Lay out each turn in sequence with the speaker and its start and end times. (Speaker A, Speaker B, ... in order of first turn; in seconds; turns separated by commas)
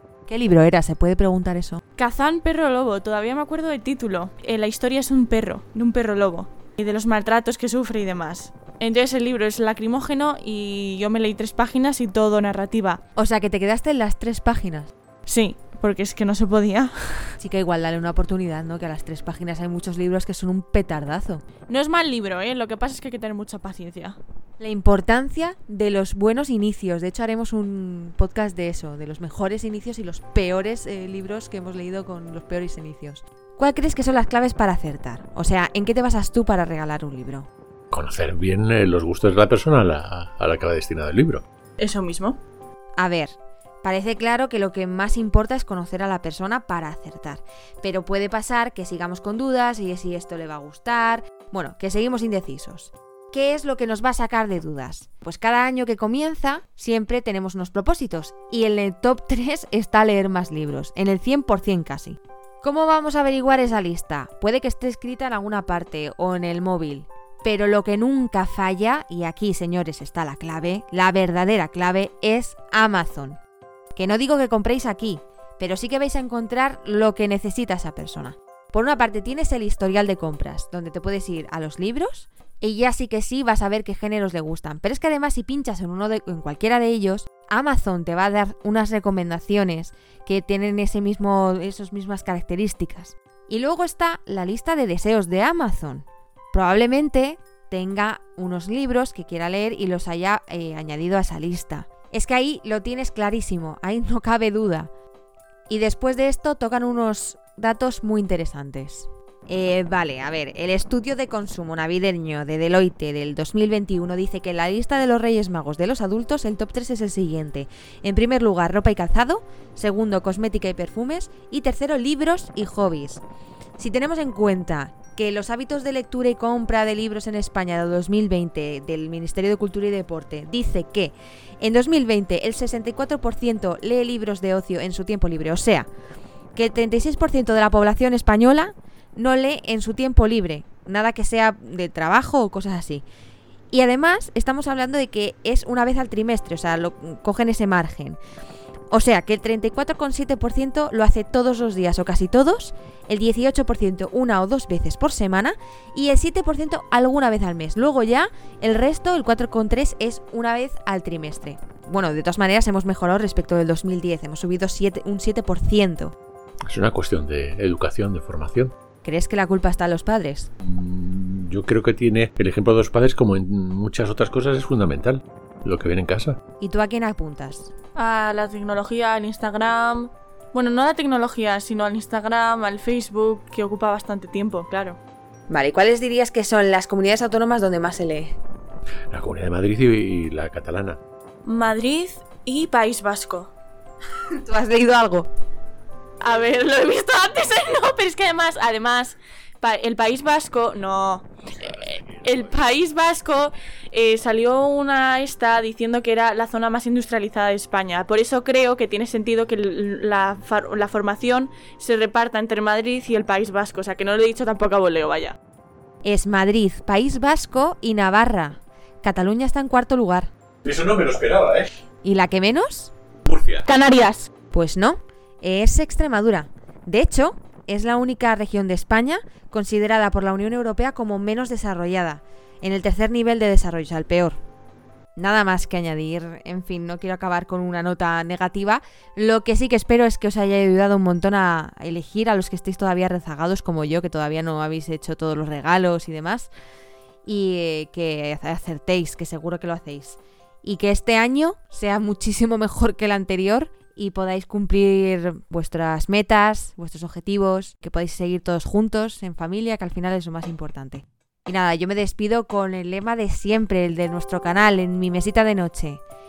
Speaker A: 0.3-1.8, Speaker B: 2.0-13.0, Speaker A: 13.2-14.9, Speaker B: 15.3-17.3, Speaker A: 17.4-21.4, Speaker B: 21.7-24.2, Speaker A: 24.6-37.5, Speaker C: 37.9-41.4, Speaker B: 41.8-42.4, Speaker A: 43.0-73.4, Speaker A: 73.9-104.9, Speaker A: 105.7-123.2, Speaker A: 123.8-135.9, Speaker A: 136.6-143.0, Speaker A: 143.7-148.2, Speaker A: 148.9-166.2, Speaker C: 166.7-168.7, Speaker A: 169.0-170.5, Speaker C: 170.6-176.4, Speaker A: 176.6-177.7, Speaker B: 177.9-185.0, Speaker A: 185.5-188.3, Speaker C: 189.1-191.0, Speaker B: 191.4-193.5, Speaker A: 194.3-195.3, Speaker B: 196.2-215.4, Speaker A: 216.1-220.3, Speaker C: 220.6-221.7, Speaker A: 222.0-222.9, Speaker C: 223.3-223.7, Speaker B: 223.7-224.3, Speaker A: 224.5-234.4, Speaker A: 235.2-246.5, Speaker A: 247.2-266.0